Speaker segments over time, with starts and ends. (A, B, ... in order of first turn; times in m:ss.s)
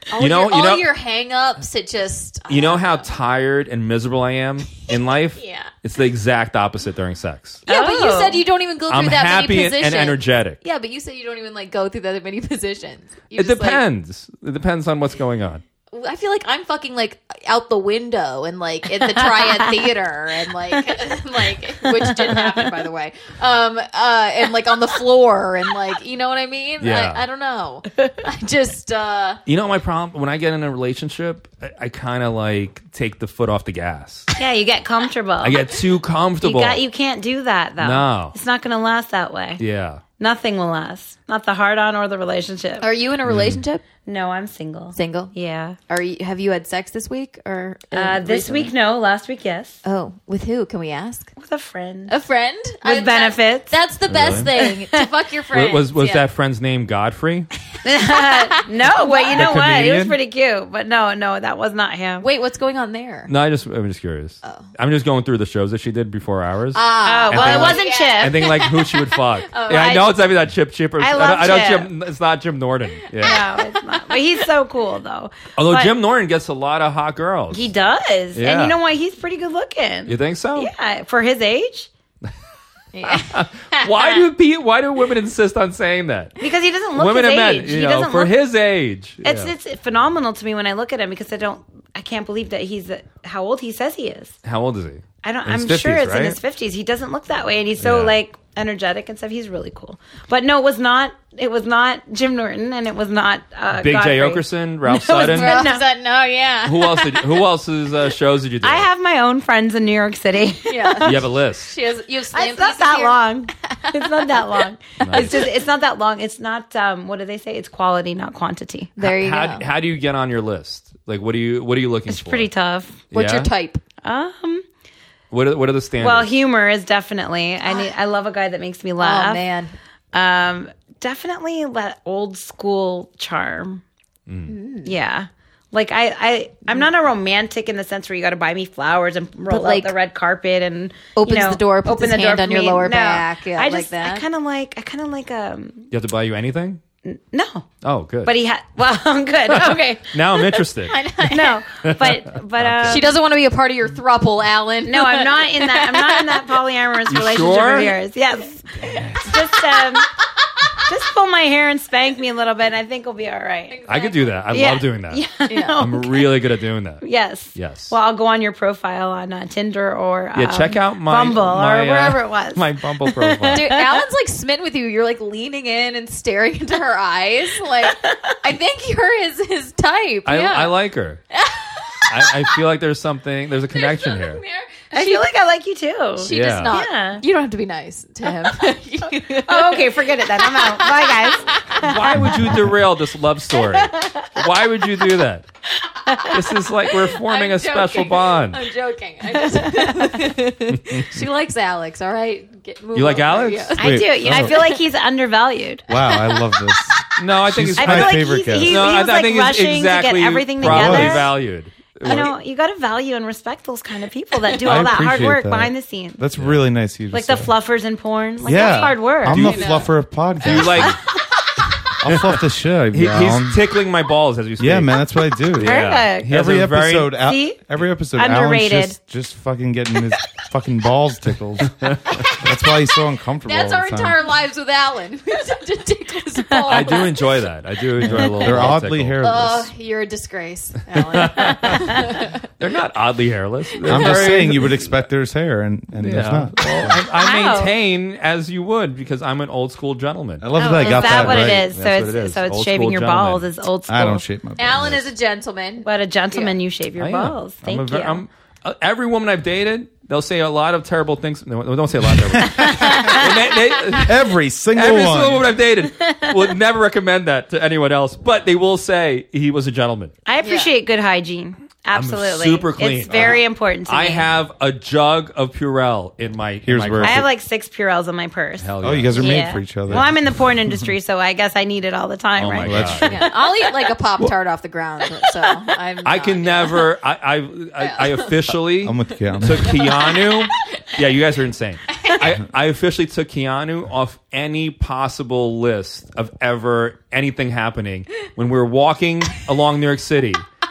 0:00.1-0:03.0 A
0:00.2-0:00.8 B
0:02.5-0:07.6 B
0:05.4-0:05.7 A
0:07.6-0:13.8 A
0:07.7-0:08.4 C
0:08.9-0:10.6 B
0:13.4-0:15.6 B
0:15.9-0:29.4 A
0:19.2-0:19.8 C
0:22.0-0:22.6 C
0:26.8-0:27.2 B
0:29.4-0:34.3 B
0:34.4-0:35.7 C
0:35.4-0:36.8 B
0:36.4-0:39.6 C
0:37.8-0:38.4 B
0:39.6-0:40.0 B
0:40.2-0:42.8 C
0:42.8-0:43.8 A
0:43.2-0:43.6 B
0:44.0-0:45.8 C
0:44.9-0:45.3 A
0:45.9-0:48.7 A
0:47.9-0:49.8 C
0:49.8-0:51.3 A
0:51.4-0:52.2 C
0:52.1-0:56.2 A
0:52.8-0:55.1 C
0:54.1-0:54.5 B
0:55.5-0:57.5 B
0:57.8-1:02.2 C
0:58.9-0:59.4 A
0:59.3-1:00.2 B
1:02.2-1:03.3 A
1:03.3-1:13.4 B
1:04.4-1:04.7 A
1:06.7-1:10.1 A
1:07.0-1:08.6 C
1:09.7-1:10.1 C
1:11.0-1:11.9 C
1:13.2-1:14.2 A
1:13.2-1:15.9 C
1:15.6-1:17.7 B
1:17.5-1:21.9 C
1:18.4-1:18.8 B
1:20.0-1:20.7 B
1:22.9-1:24.2 A
1:23.0-1:26.4 B
1:26.4-1:28.4 C
1:27.0-1:29.5 B
1:29.2-1:34.4 C
1:34.4-1:36.4 B
1:35.2-1:45.8 C
1:37.8-1:38.1 B
1:43.7-1:45.7 B
1:45.1-1:47.5 A
1:46.6-1:48.9 B
1:48.6-1:51.3 C
1:50.7-1:54.4 A
1:51.0-1:51.7 B
1:52.3-1:58.9 C
1:55.0-1:55.5 B
1:59.0-1:59.7 A
1:59.0-2:02.5 B
2:02.1-2:03.0 C
2:03.1-2:03.5 B
2:03.1-2:03.8 A
2:04.0-2:04.6 C
2:05.3-2:06.3 B
2:06.0-2:09.4 C
2:09.0-2:09.7 A
2:10.1-2:13.8 C
2:14.3-2:14.5 B
2:14.5-2:14.9 A
2:14.8-2:25.9 C
2:19.5-2:19.9 A
2:21.2-2:24.2 A
2:25.9-2:26.8 B
2:27.0-2:27.6 C
2:27.8-2:28.3 B
2:28.2-2:30.0 C
2:29.5-2:31.6 A
2:29.5-2:31.0 B
2:31.2-2:33.1 C
2:31.8-2:33.1 B
2:32.8-2:36.5 A
2:34.8-2:40.1 C
2:37.1-2:37.9 B
2:38.8-2:39.3 B
2:39.0-2:40.1 A
2:40.9-2:43.8 C
2:43.7-2:44.5 A
2:43.9-2:45.2 B
2:44.5-2:46.3 C
2:45.5-2:45.9 A
2:45.8-2:47.0 B
2:47.0-2:54.0 C
2:47.5-2:47.9 B
2:50.4-2:53.8 B
2:53.5-3:00.7 A
2:57.8-2:58.4 C
3:00.2-3:01.2 B
3:01.3-3:02.5 A
3:02.1-3:04.4 B
3:03.7-3:05.3 A
3:04.9-3:07.2 C
3:06.2-3:12.2 A
3:06.3-3:06.7 B
3:09.4-3:12.5 C
3:11.7-3:15.4 B
3:13.9-3:14.4 C
3:16.0-3:16.4 C
3:16.2-3:18.6 B
3:16.8-3:23.9 A
3:19.3-3:20.2 C
3:20.7-3:21.1 B
3:22.9-3:23.8 B
3:23.8-3:25.9 C
3:23.8-3:24.6 D
3:25.9-3:28.9 D
3:27.2-3:32.3 B
3:27.8-3:31.3 C
3:30.6-3:31.3 D
3:32.0-3:36.2 C
3:34.6-3:37.5 D
3:37.1-3:39.6 C
3:38.4-3:41.0 D
3:38.5-3:39.9 A
3:39.2-3:39.9 B
3:40.4-3:41.0 B
3:40.5-3:40.9 A
3:42.0-3:43.6 D
3:42.0-3:42.4 B
3:42.9-3:47.2 B
3:44.6-3:54.2 D
3:45.6-3:46.3 C
3:47.2-3:47.6 C
3:48.1-3:49.0 C
3:51.6-3:52.2 B
3:52.1-3:57.4 A
3:56.6-3:59.2 B
3:58.0-3:59.7 D
3:58.5-4:02.4 A
4:00.9-4:05.0 B
4:03.8-4:07.0 D
4:06.0-4:13.5 B
4:07.2-4:07.7 C
4:10.4-4:11.6 D
4:10.6-4:14.2 C
4:10.6-4:11.2 A
4:13.9-4:15.1 D
4:14.6-4:16.6 A
4:15.8-4:18.2 C
4:17.0-4:24.2 B
4:22.0-4:23.3 D
4:22.4-4:23.2 C
4:24.0-4:25.6 D
4:24.7-4:30.1 B
4:26.0-4:26.4 C
4:30.2-4:34.3 C
4:30.4-4:30.7 A
4:31.9-4:37.2 B
4:36.6-4:37.2 D
4:37.0-4:43.1 C
4:38.6-4:40.1 B
4:38.8-4:40.9 D
4:42.4-4:43.2 B
4:42.6-4:43.2 D
4:43.0-4:46.9 A
4:46.0-5:00.4 B
4:47.8-4:48.4 A
4:48.7-4:49.8 D
4:49.4-4:50.9 A
4:51.9-4:52.3 A